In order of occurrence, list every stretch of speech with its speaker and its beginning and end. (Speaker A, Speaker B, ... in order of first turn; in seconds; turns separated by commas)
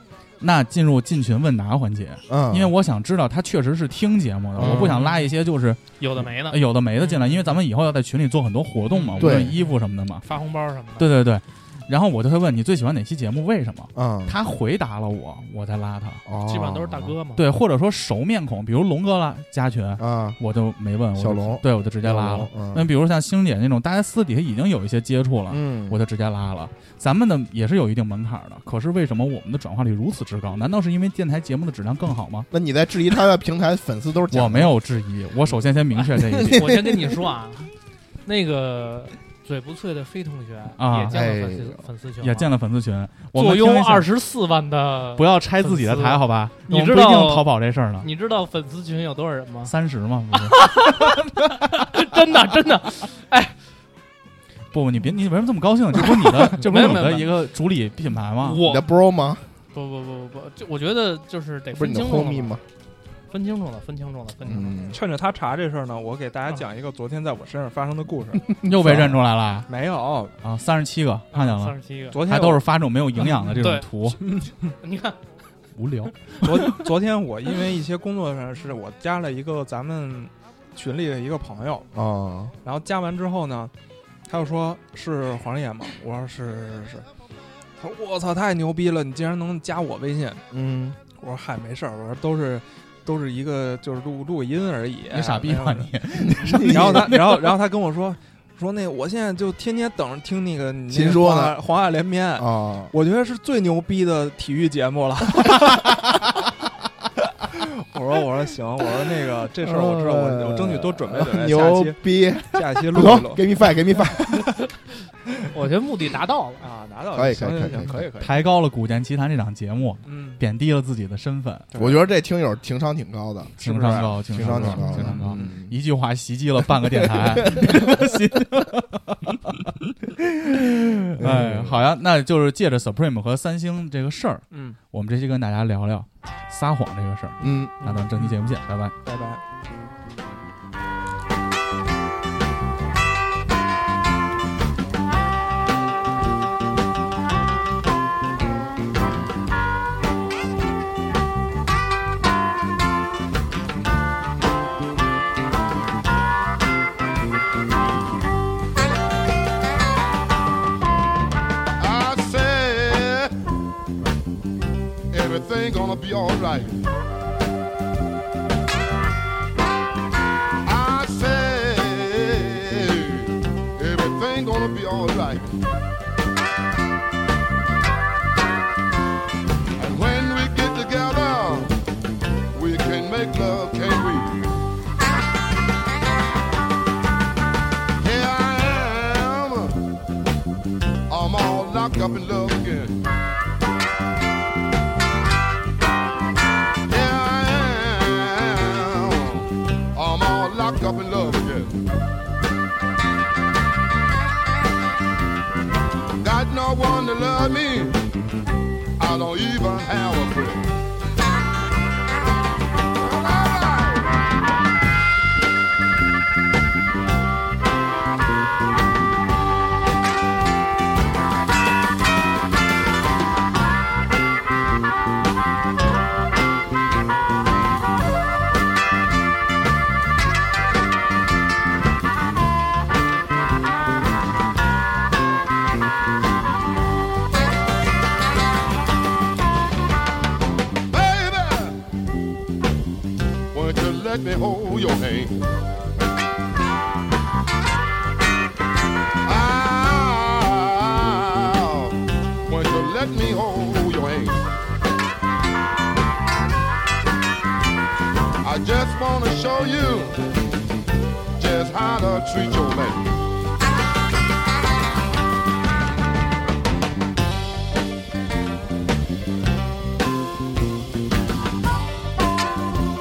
Speaker A: 0.4-10.3, Speaker B: 2.3-2.7, Speaker B: 4.6-5.0, Speaker C: 4.7-5.3, Speaker C: 6.0-7.6, Speaker C: 8.9-11.1, Speaker B: 9.2-9.6, Speaker A: 11.0-16.2, Speaker B: 13.9-14.4, Speaker B: 16.3-17.2, Speaker C: 16.4-17.5, Speaker A: 17.4-32.5, Speaker B: 20.0-20.4, Speaker B: 21.1-22.9, Speaker B: 25.5-26.0, Speaker B: 32.5-34.8, Speaker A: 34.3-36.7, Speaker B: 36.1-36.9, Speaker C: 36.5-37.7, Speaker C: 38.2-42.5, Speaker A: 40.8-41.2, Speaker B: 41.1-41.9, Speaker A: 42.2-44.1, Speaker C: 43.3-49.7, Speaker A: 45.1-48.1, Speaker A: 49.6-50.8, Speaker C: 50.5-53.5, Speaker A: 54.7-58.6, Speaker C: 56.0-57.4, Speaker C: 58.4-58.9, Speaker B: 58.6-59.5, Speaker C: 59.7-62.6, Speaker B: 61.7-62.6, Speaker C: 63.3-64.8, Speaker B: 64.4-65.0, Speaker D: 64.9-68.5, Speaker B: 68.6-69.2, Speaker A: 68.6-69.7, Speaker D: 69.7-70.4, Speaker A: 70.4-74.3, Speaker C: 71.3-72.2, Speaker D: 72.1-72.7, Speaker C: 73.6-73.9, Speaker D: 74.2-74.7, Speaker C: 74.8-75.2, Speaker A: 75.8-76.5, Speaker D: 76.4-81.9, Speaker B: 81.9-82.5, Speaker D: 82.6-83.7, Speaker D: 84.3-87.0, Speaker D: 87.8-90.4, Speaker B: 90.5-91.0, Speaker D: 91.1-95.9, Speaker A: 95.1-97.5, Speaker B: 96.2-97.2, Speaker D: 96.6-106.1, Speaker B: 100.9-101.6, Speaker B: 102.4-102.9, Speaker D: 107.5-113.6, Speaker B: 109.6-114.5, Speaker C: 115.5-116.7, Speaker D: 116.6-118.5, Speaker B: 117.1-118.0, Speaker A: 118.2-121.7, Speaker D: 120.0-120.4, Speaker D: 121.7-122.0, Speaker B: 121.8-125.8, Speaker D: 123.6-125.6, Speaker A: 123.6-129.7, Speaker B: 126.8-128.0, Speaker A: 130.2-138.9, Speaker B: 131.2-131.8, Speaker D: 134.5-134.8, Speaker B: 137.4-137.8, Speaker D: 137.9-138.3, Speaker D: 139.0-139.4, Speaker E: 161.8-163.3, Speaker E: 165.1-166.8, Speaker E: 170.6-175.5, Speaker E: 179.8-181.7, Speaker E: 182.5-184.4, Speaker E: 188.0-189.8, Speaker E: 191.1-193.0, Speaker E: 196.9-201.8, Speaker E: 206.2-208.0, Speaker E: 209.0-210.7, Speaker E: 213.0-214.1, Speaker E: 240.9-241.8, Speaker E: 243.5-245.4, Speaker E: 249.2-254.4, Speaker E: 258.4-260.3, Speaker E: 261.4-263.0